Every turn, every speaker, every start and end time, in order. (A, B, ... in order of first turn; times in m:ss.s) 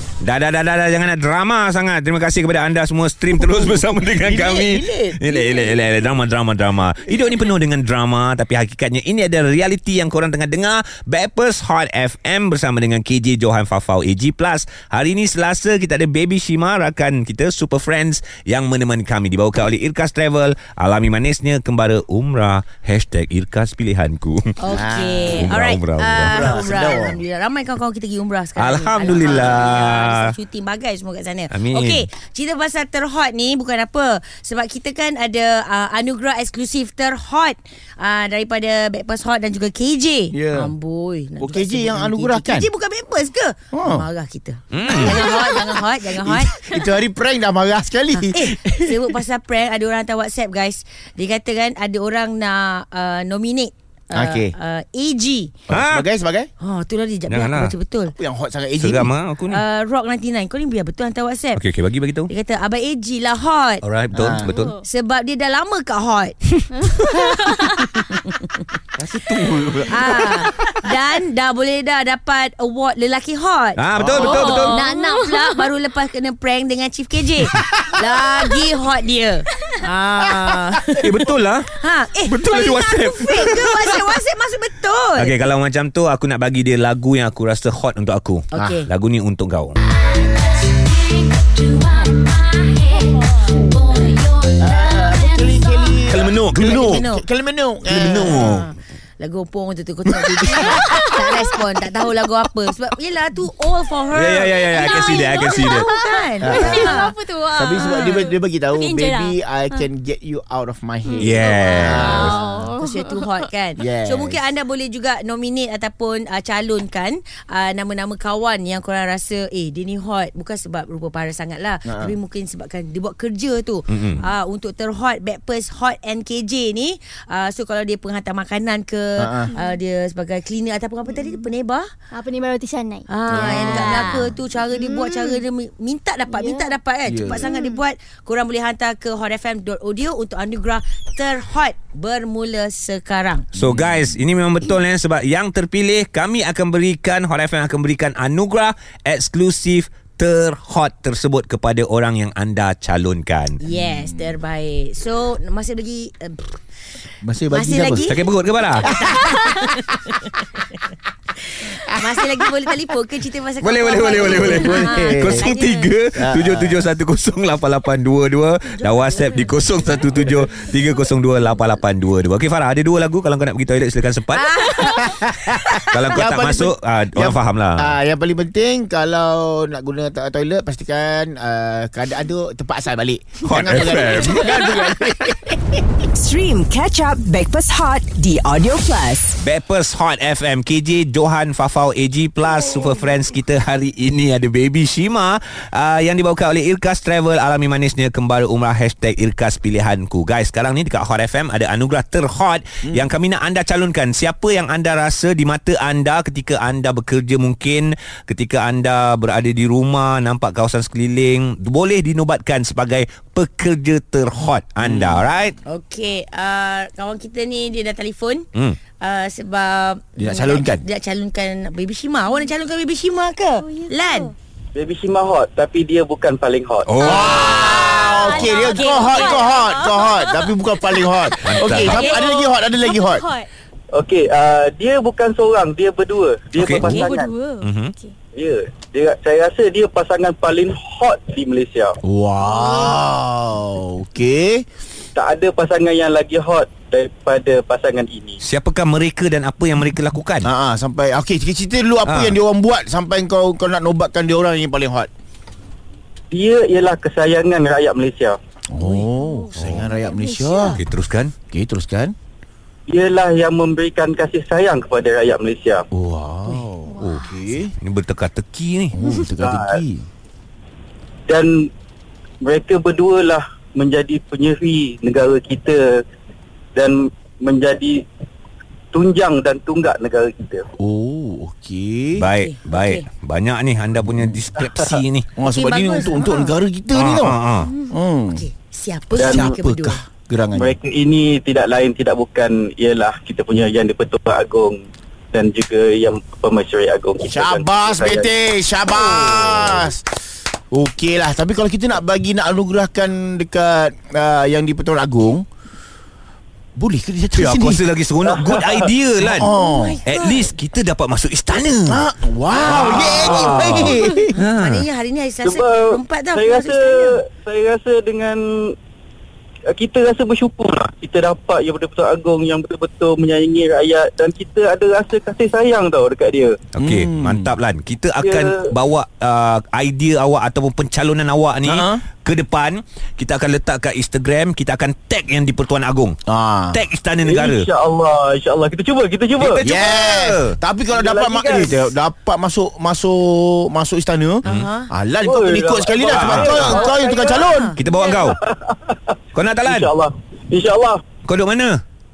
0:00.2-0:24.5 A
0:03.4-0:05.7 B
0:24.6-0:46.6 C
0:24.7-0:25.6 B
0:25.3-0:26.4 A
0:26.2-0:27.2 B
0:28.6-0:30.3 A
0:31.5-0:32.0 A
0:40.3-0:40.7 B
0:41.4-0:42.7 B
0:43.7-0:44.0 B
0:44.7-0:45.3 A
0:46.1-0:49.1 B
0:48.3-0:55.6 C
0:54.1-0:54.5 B
0:55.7-0:56.5 B
0:55.7-0:56.0 A
0:56.6-0:58.1 C
0:57.3-0:57.7 A
0:58.2-0:59.1 B
0:58.8-0:59.6 A
0:59.5-1:01.6 C
1:01.5-1:02.3 A
1:02.3-1:03.8 C
1:03.8-1:04.8 A
1:04.1-1:04.5 B
1:04.4-1:04.8 D
1:04.8-1:06.6 C
1:06.7-1:08.0 D
1:08.1-1:08.6 C
1:09.0-1:10.2 A
1:09.7-1:10.0 B
1:09.9-1:21.1 C
1:13.8-1:14.8 A
1:14.0-1:14.6 B
1:14.2-1:15.7 D
1:20.9-1:21.7 A
1:21.7-1:25.3 C
1:22.2-1:24.0 A
1:25.2-1:29.8 A
1:28.5-1:28.9 C
1:30.0-1:36.0 D
1:34.6-1:38.7 B
1:36.1-1:37.0 A
1:36.5-1:37.2 C
1:37.9-1:38.7 A
1:38.1-1:47.2 C
1:40.7-1:41.3 D
1:44.1-1:45.9 A
1:44.6-1:49.8 D
1:46.4-1:52.7 B
1:47.8-1:48.2 C
1:51.1-1:53.5 D
1:51.2-1:52.3 A
1:51.8-2:11.9 C
1:53.8-1:54.4 B
2:01.9-2:02.1 B
2:03.9-2:04.2 A
2:09.2-2:09.5 B
2:11.1-2:11.4 D
2:12.1-2:15.4 D
2:13.1-2:23.5 C
2:13.3-2:14.2 B
2:16.3-2:16.8 D
2:17.1-2:17.5 B
2:17.4-2:17.8 D
2:23.5-2:33.6 A
2:23.6-2:24.1 B
2:33.6-2:36.6 C
2:33.7-2:34.2 B
2:37.2-2:38.1 B
2:37.5-2:40.7 C
2:38.0-2:38.9 A
2:38.8-2:39.8 B
2:41.5-2:45.9 C
2:43.6-2:54.9 A
2:44.5-2:45.5 B
2:46.2-2:46.9 B
2:48.6-2:50.3 C
2:54.3-2:55.3 C
2:54.8-3:05.9 B
2:55.9-2:58.0 A
3:03.4-3:04.5 A
3:06.1-3:09.4 E
3:09.4-3:35.6 A
3:34.8-3:35.2 B
3:35.6-3:38.5 C
3:39.0-3:44.3 C
3:40.2-3:40.8 B
3:43.6-3:44.3 D
3:44.7-3:47.4 F
3:46.9-3:47.4 A
3:47.0-3:53.5 D
3:47.0-3:53.2 B
3:47.8-3:49.4 C
3:51.4-3:52.1 A
3:53.9-3:57.4 F
3:56.6-3:57.0 A
3:56.9-3:58.1 D
3:57.6-3:57.9 A
3:58.3-4:02.0 F
4:02.0-4:04.6 B
4:02.4-4:03.1 D
4:05.1-4:08.4 F
4:08.4-4:10.5 A
4:10.4-4:15.1 B
4:12.0-4:12.4 A
4:16.3-4:18.4 F
4:18.7-4:20.8 B
4:18.8-4:19.1 C
4:19.1-4:20.8 D
4:19.6-4:19.8 A
4:20.7-4:21.3 A
4:21.5-4:22.1 B
4:22.9-4:25.8 F
4:25.9-4:27.7 B
4:26.9-4:27.5 D
4:27.0-4:27.2 A
4:27.8-4:29.0 A
4:28.9-4:30.1 B
4:29.0-4:29.3 D
4:29.3-4:29.8 F
4:31.3-4:31.7 F
4:32.4-4:36.0 F
4:36.7-4:38.0 F
4:38.9-4:40.7 F
4:40.8-4:42.2 B
4:42.2-4:45.3 A
4:42.4-4:43.0 C
4:44.1-4:44.3 B
4:45.4-4:48.4 B
4:45.4-4:46.5 C
4:46.9-4:47.7 A
4:48.3-4:50.0 C
4:49.1-4:49.5 F
4:49.3-4:50.7 B
4:50.6-4:58.3 F
4:57.3-5:00.1 B
4:58.8-4:59.8 C
5:00.7-5:05.4 B
5:06.8-5:07.8 B
5:07.4-5:12.0 A
5:08.2-5:08.9 F
5:09.2-5:10.0 B
5:09.4-5:10.5 C
5:11.9-5:14.4 B
5:12.5-5:17.1 C
5:12.6-5:14.8 A
5:15.4-5:18.7 F
5:19.7-5:26.6 F
5:26.7-5:36.2 A
5:26.8-5:27.5 B
5:28.2-5:28.7 F
5:31.6-5:32.0 B
5:36.2-5:36.8 B
5:36.7-5:37.7 A
5:37.2-5:39.6 F
5:39.4-5:40.5 A
5:39.6-5:47.7 B
5:40.9-5:41.9 F
5:44.4-5:44.9 C
5:45.2-5:51.0 F
5:46.1-5:46.8 A
5:47.3-5:47.8 C
5:47.8-5:48.4 A
5:49.3-5:49.9 A
5:51.2-5:51.8 A